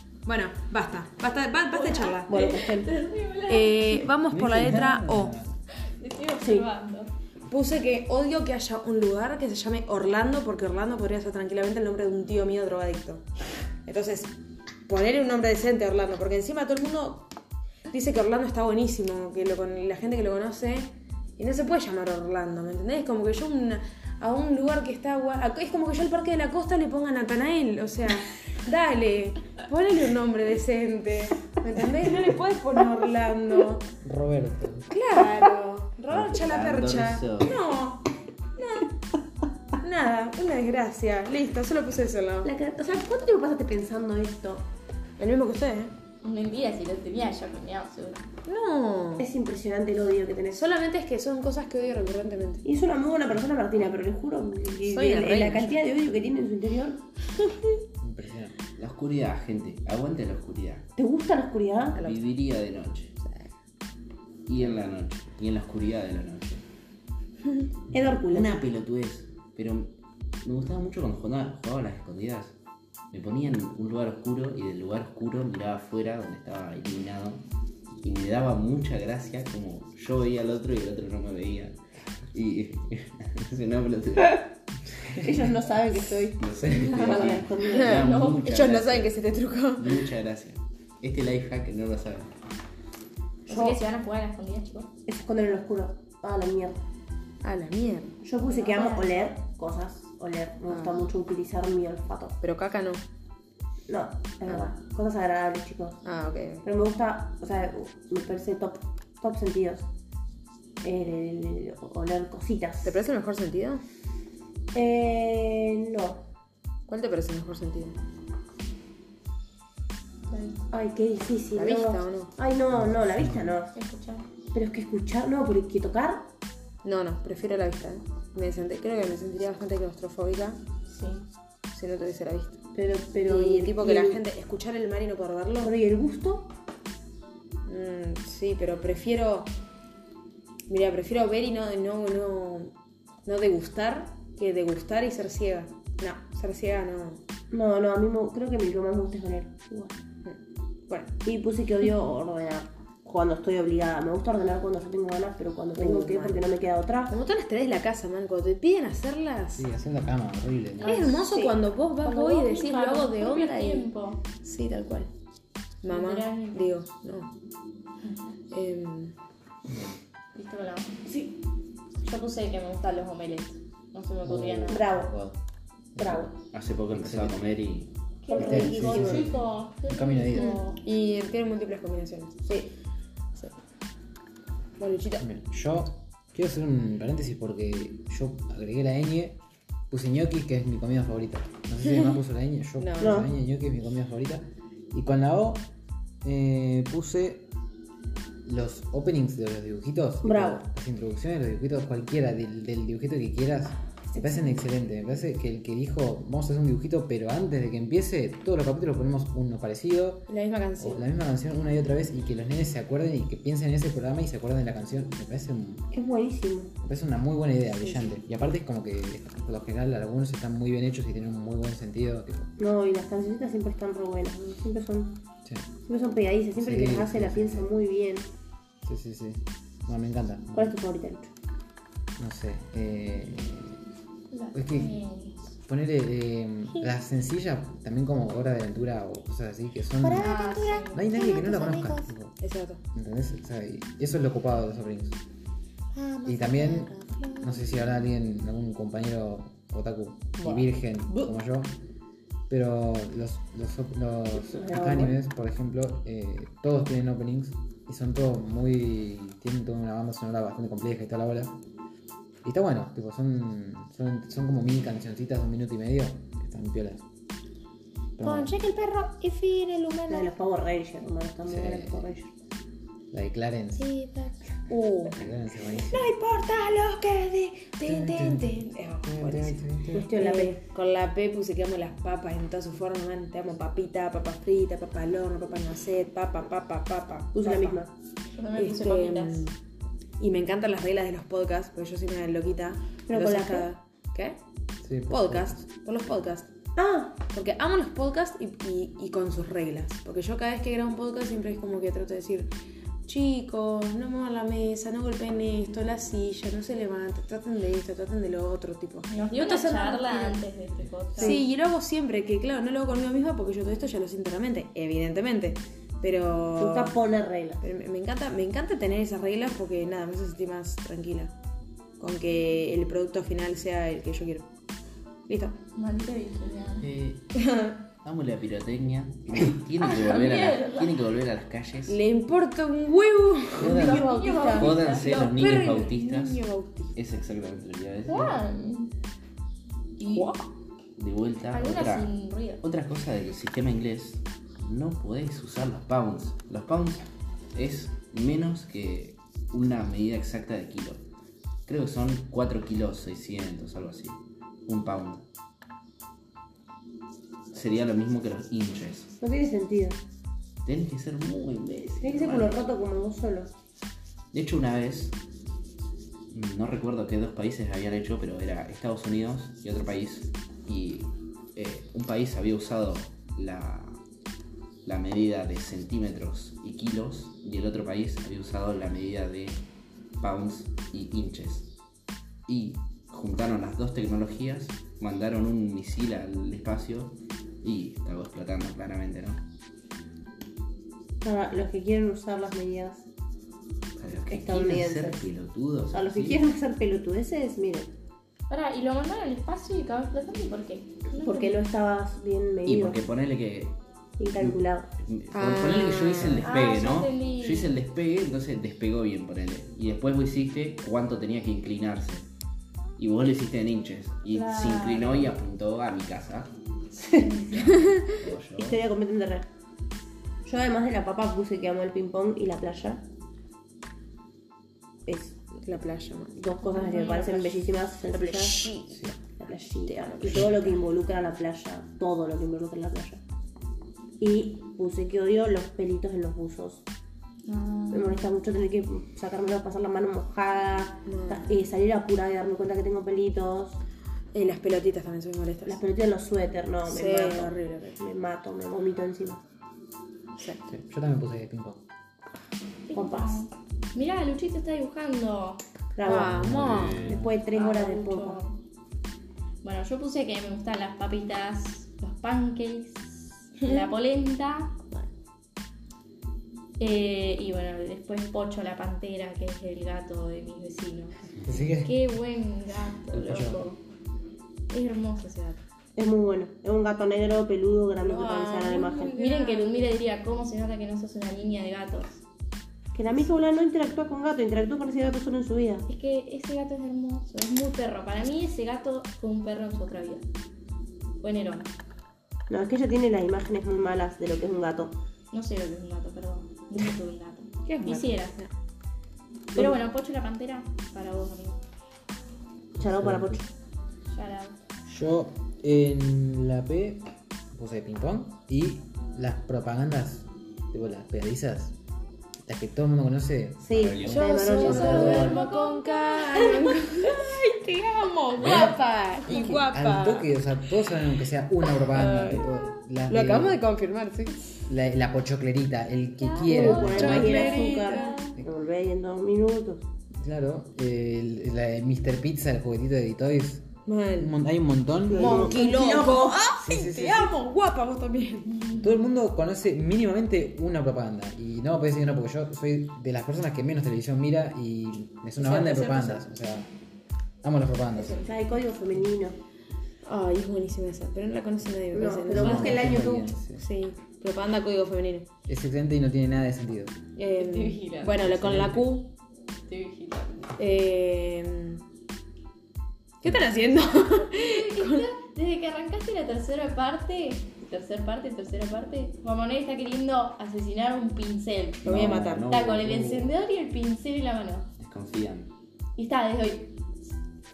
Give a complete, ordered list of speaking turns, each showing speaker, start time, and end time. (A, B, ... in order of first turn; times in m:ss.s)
0:00.2-0:02.3 A
0:01.7-0:04.1 B
0:02.3-0:02.9 C
0:03.5-0:05.4 A
0:04.3-0:05.5 D
0:05.8-0:07.1 B
0:06.4-0:06.7 C
0:07.5-0:13.2 A
0:13.8-0:14.3 A
0:14.9-0:17.3 A
0:17.9-0:33.8 A
0:34.0-0:34.9 D
0:34.9-0:38.0 A
0:36.1-0:37.7 E
0:38.6-0:38.9 A
0:39.8-0:42.5 A
0:42.4-0:44.6 C
0:45.2-0:45.9 A
0:46.2-0:48.3 B
0:48.4-0:49.3 A
0:49.2-0:50.6 C
0:50.5-0:52.6 A
0:52.6-0:57.0 C
0:54.8-0:55.8 A
0:58.0-0:58.5 D
0:58.8-1:00.9 E
1:01.0-1:02.0 C
1:02.0-1:03.2 E
1:02.0-1:02.2 A
1:03.2-1:03.5 A
1:04.4-1:06.6 E
1:07.9-1:08.6 C
1:08.3-1:12.6 E
1:13.1-1:17.4 E
1:18.0-1:21.8 E
1:22.3-1:24.5 E
1:25.1-1:28.0 C
1:26.4-1:29.1 E
1:27.0-1:28.5 B
1:27.7-1:30.1 A
1:29.8-1:32.3 E
1:33.5-1:33.8 C
1:33.5-1:34.9 B
1:35.0-1:36.8 C
1:37.4-1:38.2 A
1:38.2-1:42.4 C
1:38.4-1:39.1 B
1:40.7-1:41.1 A
1:42.4-1:43.0 A
1:43.9-1:46.0 C
1:46.0-1:46.6 A
1:46.6-1:49.9 C
1:50.8-1:53.0 C
1:52.8-1:53.8 A
1:54.7-1:56.2 C
1:56.9-1:58.0 A
2:00.3-2:00.6 B
2:00.7-2:03.7 C
2:01.5-2:02.3 A
2:02.7-2:03.4 D
2:03.7-2:04.3 B
2:04.5-2:06.3 C
2:06.8-2:10.6 A
2:10.9-2:11.2 B
2:11.7-2:12.6 A
2:12.7-2:14.2 C
2:13.1-2:15.7 A
2:15.6-2:16.5 C
2:17.6-2:19.5 A
2:20.7-2:22.7 A
2:23.2-2:27.2 A
2:27.5-2:30.0 C
2:30.2-2:31.1 A
2:31.2-2:37.2 C
2:35.7-2:36.5 A
2:37.1-2:39.6 A
2:39.5-2:41.0 D
2:40.8-2:45.1 A
2:40.8-2:41.6 C
2:42.0-2:44.2 B
2:45.8-2:47.3 A
2:45.9-2:46.7 B
2:48.0-2:48.3 B
2:48.5-2:49.1 A
2:49.6-2:50.0 D
2:50.3-2:51.0 B
2:51.0-2:51.4 C
2:52.0-2:54.9 B
2:54.2-2:55.4 D
2:54.7-2:55.2 C
2:56.0-2:56.4 D
2:56.0-2:56.3 C
2:56.5-2:58.7 E
2:57.0-2:57.5 D
2:58.2-3:00.8 B
2:58.3-2:59.3 C
2:58.3-3:00.6 D
3:00.4-3:02.5 A
3:04.8-3:05.2 A
3:05.2-3:15.7 D
3:12.8-3:13.2 A
3:13.0-3:13.3 C
3:16.2-3:17.5 D
3:18.4-3:35.9 D
3:20.2-3:20.6 C
3:24.1-3:24.6 C
3:30.3-3:31.0 A
3:35.9-3:36.7 C
3:36.8-3:42.5 D
3:37.7-3:38.1 A
3:42.6-3:45.2 C
3:45.8-3:48.3 C
3:46.6-3:47.7 D
3:48.8-3:50.7 D
3:50.5-3:51.3 C
3:52.2-3:53.8 D
3:54.3-3:55.4 B
3:54.5-3:55.0 D
3:55.6-4:02.4 D
4:00.1-4:01.9 C
4:00.1-4:01.2 B
4:00.2-4:00.7 A
4:01.3-4:02.8 A
4:02.9-4:05.2 D
4:06.0-4:07.5 A
4:06.2-4:11.8 D
4:10.4-4:11.3 A
4:12.5-4:21.6 D
4:14.3-4:15.2 C
4:22.4-4:27.0 D
4:28.2-4:28.5 D
4:28.2-4:30.3 A
4:30.1-4:32.3 C
4:31.5-4:32.1 D
4:33.1-4:33.9 D
4:33.8-4:35.2 A
4:35.1-4:36.1 D
4:35.8-4:47.8 A
4:37.8-4:40.1 D
4:39.9-4:40.6 C
4:47.3-4:47.9 C
4:48.4-4:49.5 B
4:48.6-4:49.6 A
4:50.2-4:54.4 A
4:53.1-4:53.7 C
4:54.8-4:55.6 D
4:55.1-4:56.5 A
4:56.8-4:57.2 C
4:57.2-5:02.5 A
5:03.0-5:09.9 A
5:09.1-5:11.4 B
5:09.4-5:10.4 C
5:11.2-5:17.0 A
5:16.5-5:17.6 C
5:17.6-5:21.3 A
5:22.0-5:24.4 A
5:25.3-5:25.6 A
5:25.7-5:26.9 B
5:26.8-5:27.3 E
5:27.3-5:27.8 A
5:28.0-5:32.0 E
5:29.8-5:31.0 B
5:31.9-5:36.9 A
5:33.6-5:36.4 E
5:33.6-5:35.9 B
5:33.7-5:34.7 C
5:36.9-5:38.4 E
5:38.0-5:38.9 B
5:40.0-5:40.3 B
5:40.1-5:40.4 A
5:41.0-5:51.0 E
5:41.5-5:42.6 B
5:51.7-5:55.2 E
5:57.5-5:59.1 E
5:59.2-6:00.0 C
6:00.6-6:02.6 E
6:02.0-6:03.5 C
6:04.3-6:05.2 E
6:06.3-6:14.0 E
6:14.8-6:19.6 E
6:20.2-6:21.7 E
6:22.5-6:29.4 E
6:31.2-6:33.1 C
6:34.0-6:36.4 E
6:34.3-6:35.3 C
6:35.9-6:37.9 C
6:38.5-6:41.6 B
6:41.2-6:43.0 C
6:42.6-6:43.8 E
6:44.2-6:44.9 C
6:44.3-6:52.3 E
6:45.3-6:46.5 A
6:46.4-6:47.8 B
6:53.0-6:56.5 E
6:54.3-6:55.3 B
6:57.0-6:57.3 C
6:57.1-6:57.8 B
6:57.6-6:58.2 A
6:58.0-6:58.8 E
6:58.6-6:59.5 C
7:00.4-7:03.1 C
7:05.1-7:09.0 A
7:06.4-7:13.2 C
7:06.6-7:07.3 B
7:09.8-7:10.8 A
7:14.2-7:16.8 C
7:17.4-7:18.3 B
7:17.9-7:23.8 C
7:21.0-7:21.5 A
7:24.3-7:25.8 A
7:25.6-7:29.4 C
7:26.8-7:28.0 A
7:30.4-7:30.6 A
7:30.7-7:31.8 D
7:32.9-7:35.6 B
7:32.9-7:33.5 C
7:35.9-7:38.4 C
7:36.0-7:37.1 A
7:36.4-7:37.4 D
7:36.5-7:37.2 E
7:37.5-7:38.6 B
7:39.6-7:44.8 B
7:46.8-7:51.2 B
7:51.4-7:52.2 D
7:51.8-7:53.8 B
7:53.1-7:53.6 D
7:54.7-7:55.6 B
7:56.0-7:59.1 C
7:58.0-7:59.8 A
7:59.2-8:02.2 B
8:02.9-8:05.8 C
8:05.9-8:10.2 B
8:11.2-8:11.7 B
8:12.5-8:14.9 C
8:15.3-8:18.4 B
8:17.6-8:18.5 A
8:19.5-8:21.6 B
8:22.8-8:23.5 C
8:22.8-8:23.4 D
8:24.1-8:24.5 B
8:24.8-8:31.8 D
8:32.4-8:35.4 D
8:33.6-8:35.3 C
8:33.7-8:34.4 E
8:34.1-8:40.3 A
8:34.4-8:38.7 B
8:38.4-8:38.8 D
8:39.3-8:43.6 D
8:41.7-8:44.4 A
8:44.7-8:47.5 D
8:46.2-8:48.4 B
8:46.4-8:49.8 C
8:46.5-8:48.3 A
8:50.1-8:55.6 D
8:53.8-8:54.3 A
8:55.1-8:56.5 C
8:55.1-8:58.8 A
8:56.6-8:57.3 D
8:58.8-9:06.7 D
9:05.4-9:06.1 A
9:05.4-9:06.1 C
9:07.4-9:08.3 D
9:08.0-9:08.2 A
9:08.1-9:09.4 C
9:10.0-9:15.3 A
9:11.9-9:13.3 C
9:12.3-9:13.6 D
9:15.5-9:17.0 D
9:17.2-9:19.1 A
9:17.3-9:18.2 B
9:18.2-9:18.9 D
9:19.7-9:20.5 B
9:20.6-9:21.8 A
9:23.2-9:25.1 A
9:23.2-9:23.5 D
9:24.1-9:31.9 B
9:31.8-9:33.3 E
9:31.8-9:32.5 A
9:32.5-9:34.7 B
9:34.8-9:35.5 E
9:36.0-9:36.8 B